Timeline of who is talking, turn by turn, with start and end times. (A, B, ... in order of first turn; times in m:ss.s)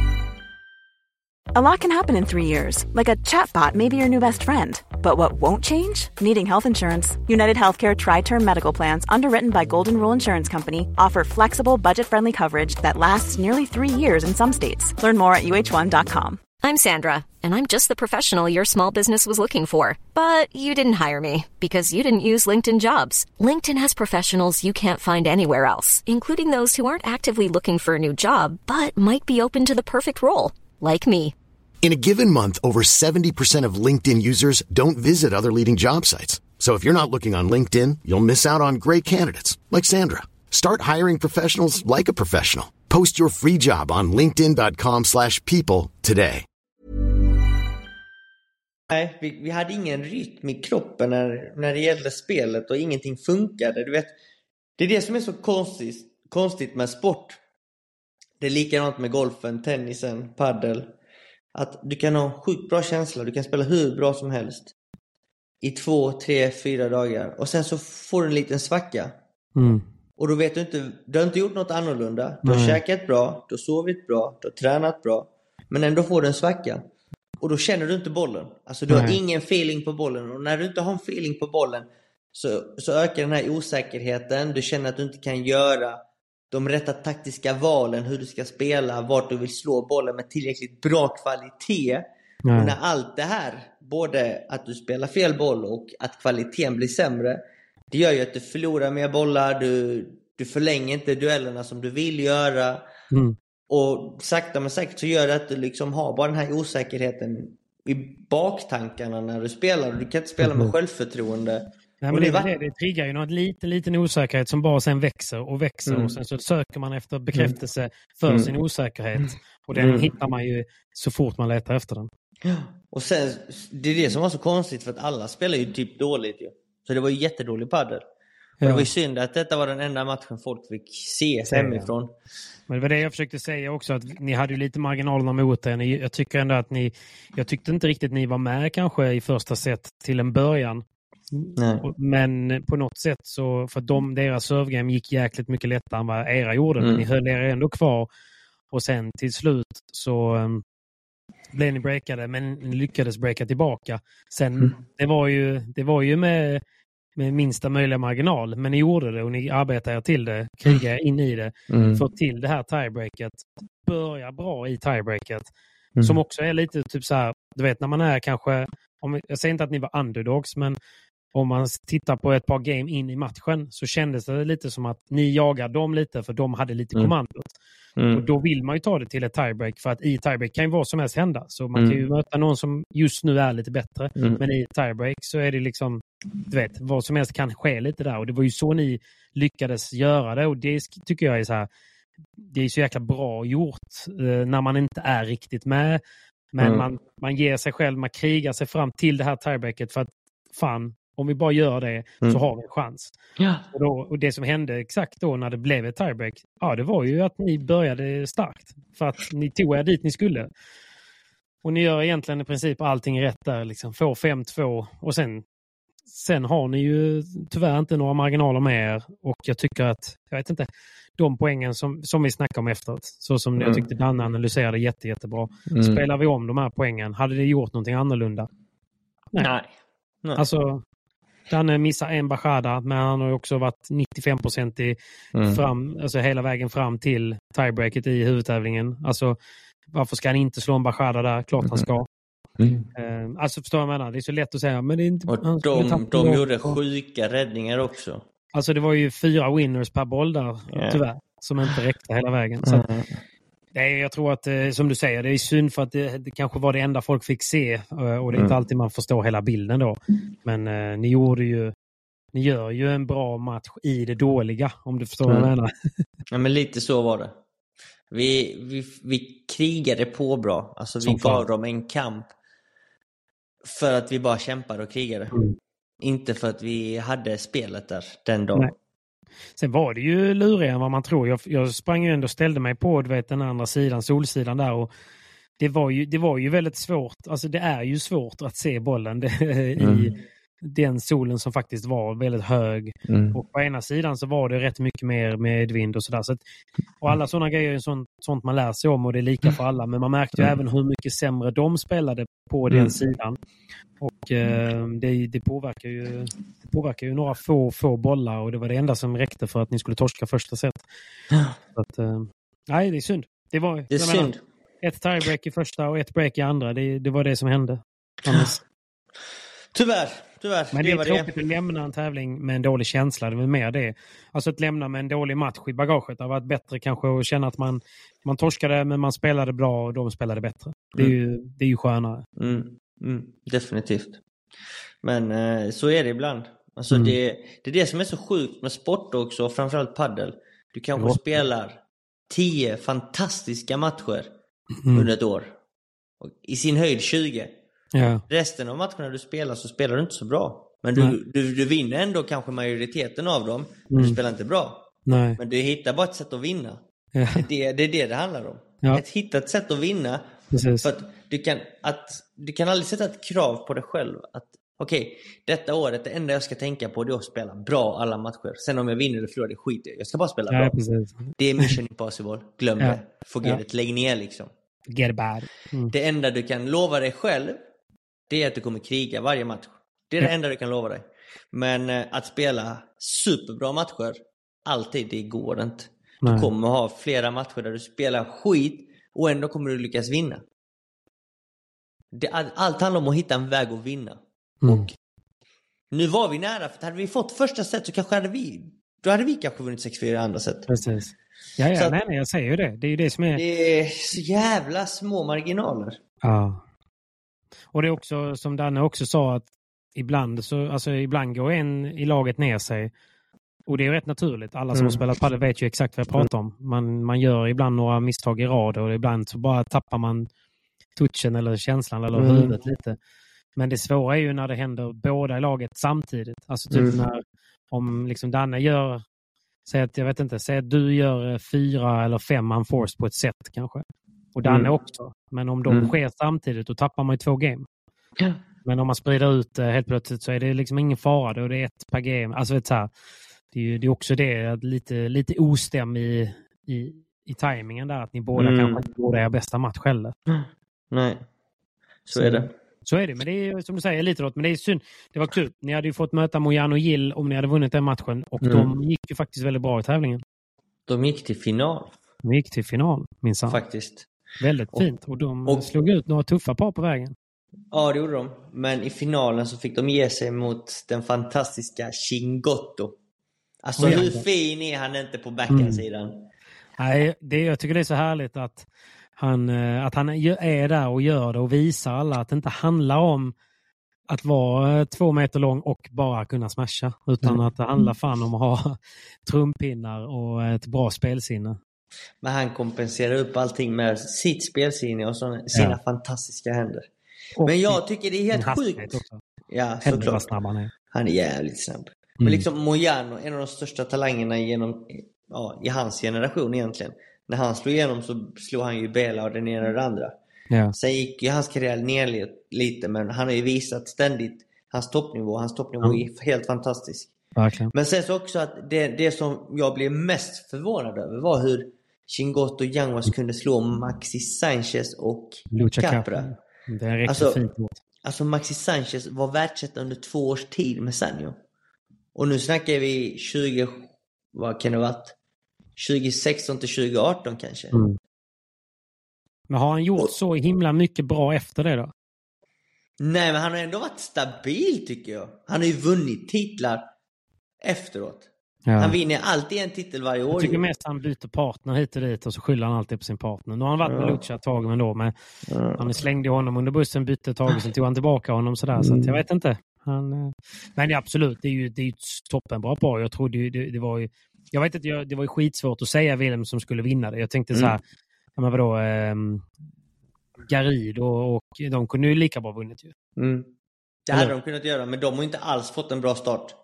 0:01.5-0:16.4 A
0:16.6-0:31.3 B
0:31.8-0:46.4 C
0:48.9-0:54.2 D
0:54.8-0:57.4 D
0:58.4-1:00.9 D
1:01.5-1:04.7 D
1:05.6-1:09.2 D
1:09.6-1:09.8 E
1:10.2-1:16.8 D
1:12.4-1:12.8 E
1:17.4-1:26.0 D
1:18.9-1:19.2 E
1:26.5-1:42.8 D
1:32.4-1:32.8 E
1:43.1-1:43.4 E
1:43.7-1:52.5 D
1:50.4-1:50.7 E
1:52.0-2:02.1 E
1:55.8-1:56.1 D
1:59.2-2:00.1 D
2:02.4-2:08.0 D
2:08.6-2:08.9 E
2:08.6-2:12.1 D
2:11.5-2:11.9 E
2:12.7-2:28.1 E
2:21.6-2:21.8 D
2:26.8-2:27.0 D
2:28.7-2:30.6 E
2:31.5-2:36.6 E
2:37.2-2:45.5 E
2:41.7-2:42.0 D
2:46.0-2:50.8 E
2:51.3-2:57.5 E
2:58.0-2:58.2 D
2:58.1-3:11.7 E
3:01.7-3:02.0 D
3:04.2-3:04.4 D
3:12.4-3:16.0 E
3:16.5-3:23.1 E
3:16.6-3:16.9 D
3:23.4-3:23.6 D
3:23.7-3:30.5 E
3:31.6-3:35.4 E
3:36.1-3:40.7 E
3:41.2-3:48.5 E
3:43.6-3:43.8 D
3:45.7-3:46.0 D
3:49.4-3:49.7 D
3:50.4-3:50.8 E
3:51.5-3:55.0 E
3:55.3-3:55.6 D
3:55.5-3:59.4 E
3:59.9-4:02.1 E
4:01.6-4:01.9 D
4:02.6-4:02.8 D
4:02.9-4:06.8 E
4:05.3-4:08.2 D
4:08.5-4:12.8 E
4:10.7-4:11.0 D
4:12.6-4:13.1 D
4:13.8-4:21.7 E
4:22.3-4:25.7 E
4:26.3-4:27.3 D
4:28.1-4:32.3 D
4:31.0-4:31.4 E
4:33.6-4:35.3 D
4:35.3-4:35.6 E
4:36.0-4:38.7 D
4:39.6-4:44.9 E
4:45.6-4:56.4 E
4:49.8-4:50.2 D
4:53.1-4:53.4 D
4:57.0-5:03.4 E
5:04.0-5:10.8 E
5:11.7-5:14.3 E
5:13.9-5:14.4 D
5:14.8-5:18.6 E
5:19.7-5:21.3 D
5:20.7-5:32.2 E
5:32.4-5:34.2 D
5:35.0-5:44.3 D
5:36.9-5:37.2 E
5:41.0-5:41.2 E
5:44.8-5:45.1 E
5:44.9-5:45.5 D
5:46.2-5:47.5 D
5:47.9-5:48.2 E
5:48.3-5:56.8 D
5:53.9-5:54.2 E
5:55.1-5:55.4 E
5:57.1-5:57.4 E
5:57.3-6:10.8 D
6:00.5-6:00.9 E
6:10.5-6:11.7 E
6:11.4-6:14.5 D
6:12.8-6:13.6 E
6:14.9-6:15.9 E
6:15.9-6:17.6 D
6:18.3-6:30.4 D
6:26.2-6:26.5 E
6:32.1-6:34.9 D
6:35.9-6:40.7 D
6:40.7-6:43.4 E
6:43.3-6:46.0 D
6:46.2-6:46.6 E
6:47.7-6:52.9 E
6:53.7-7:00.3 E
6:54.7-6:55.0 D
7:01.0-7:03.0 E
7:02.1-7:02.5 D
7:03.6-7:09.0 E
7:06.7-7:07.0 D
7:09.6-7:17.7 E
7:14.4-7:14.7 D
7:15.7-7:15.9 D
7:18.6-7:22.9 E
7:23.5-7:30.1 E
7:28.4-7:28.8 D
7:30.3-7:31.2 D
7:32.1-7:32.5 D
7:32.1-7:40.2 E
7:38.4-7:38.7 D
7:40.9-7:41.9 D
7:42.2-7:43.6 E
7:43.5-7:44.1 D
7:44.4-7:47.1 E
7:45.4-7:45.7 D
7:47.7-7:52.9 D
7:53.6-7:56.3 D
7:53.8-7:54.2 E
7:55.5-7:55.8 E
7:56.8-7:58.6 E
7:59.2-8:03.3 E
8:04.1-8:11.6 E
8:07.2-8:07.9 D
8:12.2-8:16.9 D
8:17.4-8:17.8 E
8:17.4-8:20.3 D
8:18.3-8:19.2 E
8:19.8-8:20.7 E
8:20.9-8:30.1 D
8:22.2-8:22.4 E
8:30.7-8:37.1 D
8:37.4-8:37.7 E
8:37.7-8:46.3 D
8:45.5-8:47.7 E
8:47.0-8:47.4 D
8:48.0-8:51.4 D
8:52.1-8:55.1 D
8:55.8-8:57.8 D
8:57.7-8:58.0 E
8:59.5-9:01.9 E
9:03.0-9:06.8 D
9:07.6-9:10.6 D
9:08.7-9:09.0 E
9:10.3-9:15.1 E
9:13.8-9:14.2 D
9:15.5-9:15.9 D
9:15.8-9:27.8 E
9:18.8-9:19.2 D
9:28.4-9:29.5 E
9:30.5-9:32.9 E
9:33.2-9:33.5 D
9:34.1-9:36.6 D